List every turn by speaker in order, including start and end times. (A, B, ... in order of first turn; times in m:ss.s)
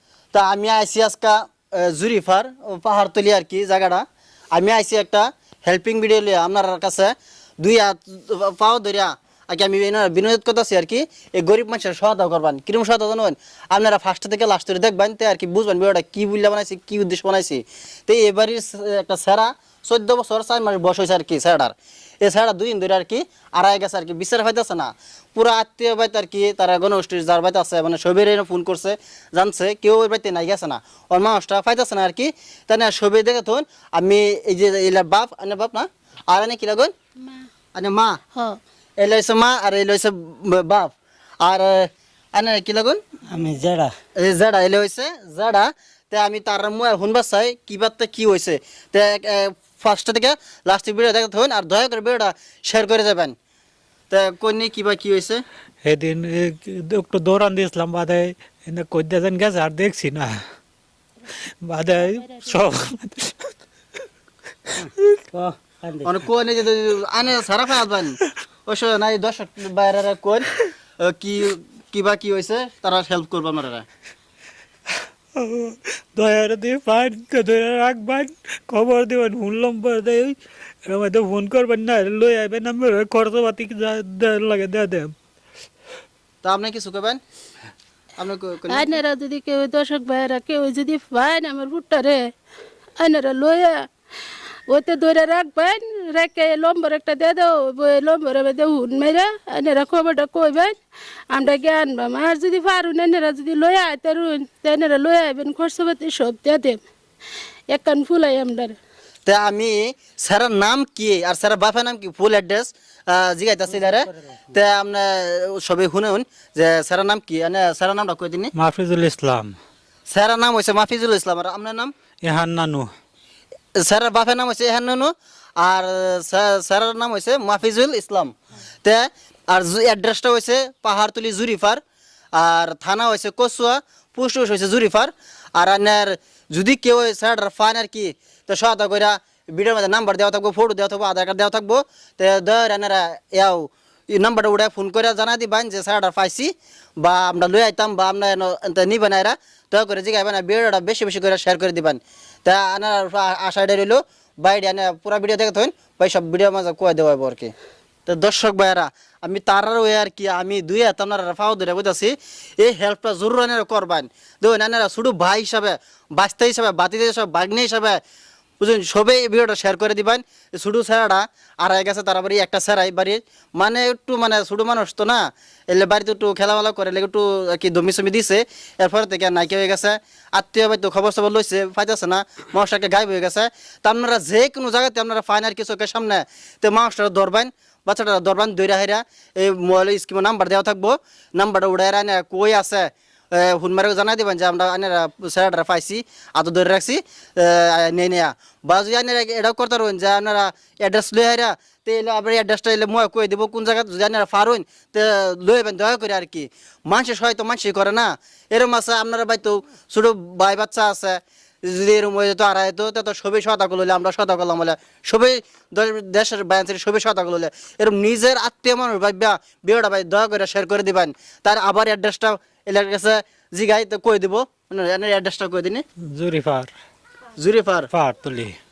0:00.3-0:36.9 A
0:37.7-0:38.2 A
0:39.0-0:43.0 A
0:43.3-0:43.9 B
0:44.2-0:53.4 A
0:54.1-0:55.4 A
0:55.8-1:00.4 B
1:01.6-1:03.5 B
1:01.9-1:02.5 C
1:04.7-1:06.0 B
1:06.0-1:10.5 A
1:11.0-1:13.9 A
1:15.4-1:25.1 B
1:26.4-1:27.2 A
1:28.2-1:29.0 A
1:28.7-1:32.2 C
1:33.0-1:33.9 C
1:34.7-1:40.8 C
1:41.3-1:46.8 C
1:47.7-1:48.8 C
1:49.3-1:58.5 A
1:58.5-1:59.6 B
2:00.1-2:01.9 A
2:02.2-2:02.9 B
2:03.8-2:11.8 A
2:12.3-2:37.6 A
2:38.1-2:48.0 A
2:48.6-3:45.8 A
3:46.1-3:46.7 B
3:47.4-3:47.9 A
3:47.9-3:48.6 B